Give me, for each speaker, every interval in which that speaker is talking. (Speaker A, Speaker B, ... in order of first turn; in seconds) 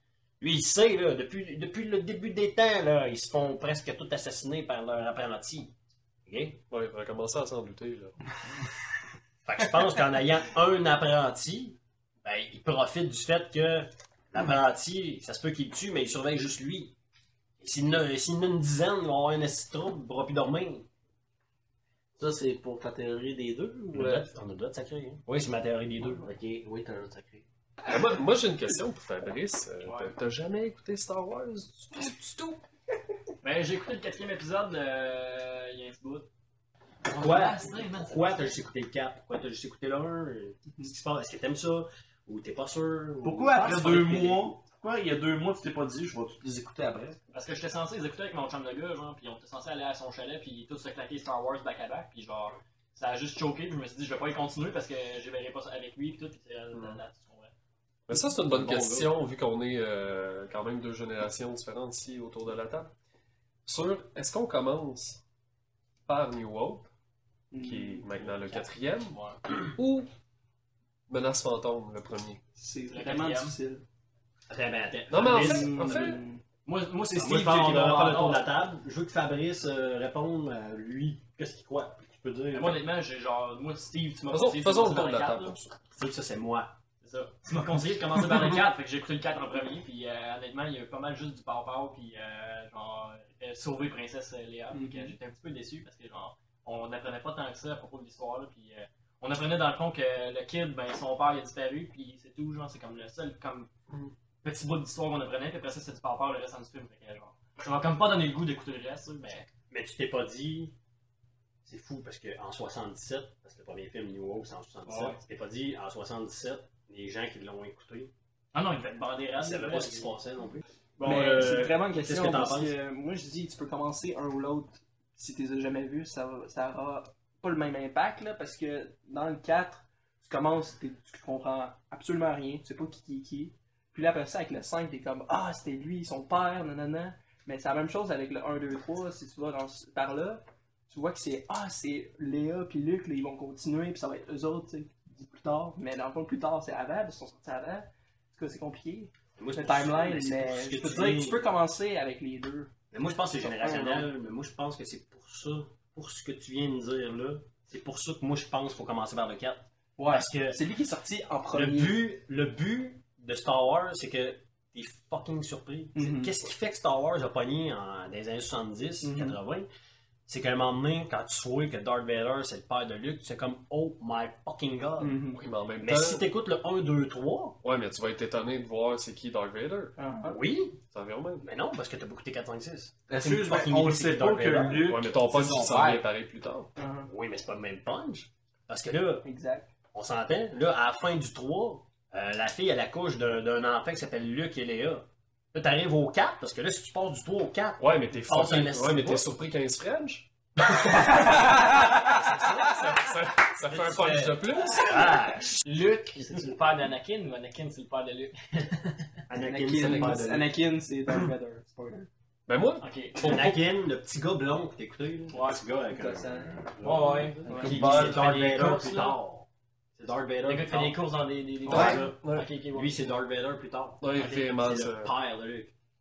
Speaker A: 0.4-5.7, 6.3-6.6, 9.4-16.9, 17.6-20.9, 23.9-26.3, 37.1-44.4, 58.6-59.0, 74.5-76.1, 77.2-82.8, 85.9-86.7, 109.7-110.7, 111.7-118.1, 119.4-122.8, 149.4-151.4, 152.9-160.6, 161.5-169.7, 170.3-175.2, 175.8-177.6, 180.2-180.8, 181.4-184.9, 187.1-189.3, 189.9-199.3, 200.9-201.4, 202.1-203.0, 203.7-206.5, 209.3-210.5, 213.2-219.5, 220.0-221.0, 221.7-222.2, 222.7-225.7
Speaker B: 6.7-8.6, 27.9-32.6, 56.7-57.0, 58.1-62.9, 63.7-65.2, 66.1-66.9, 67.6-70.1, 71.1-72.4, 75.1-76.2, 84.3-85.8, 175.3-176.3, 177.6-179.9, 180.9-181.4, 184.9-186.7, 197.8-205.3, 209.8-210.3, 212.5-213.6, 221.7-222.5, 224.0-225.1
Speaker C: 22.2-24.3, 26.1-27.5, 37.1-38.5, 43.2-47.2, 183.1-186.0, 216.8-219.2, 221.7-222.0
Speaker D: 33.4-36.3, 47.3-57.5, 68.2-69.4, 72.9-73.6, 76.7-78.5, 82.5-85.6, 87.0-103.7, 104.4-109.5, 114.9-115.2, 118.5-120.3, 205.7-209.1, 212.8-213.2, 215.3-215.8, 216.9-218.2, 220.4-223.1
Speaker E: 67.5-68.0, 72.6-73.8, 75.3-76.4, 94.7-95.2, 121.0-152.7, 153.4-154.1, 160.0-162.0, 165.9-166.3, 169.0-169.4, 175.0-175.4, 180.0-180.4, 186.8-187.1, 189.2-189.7, 209.4-212.1, 215.9-216.7, 217.4-218.1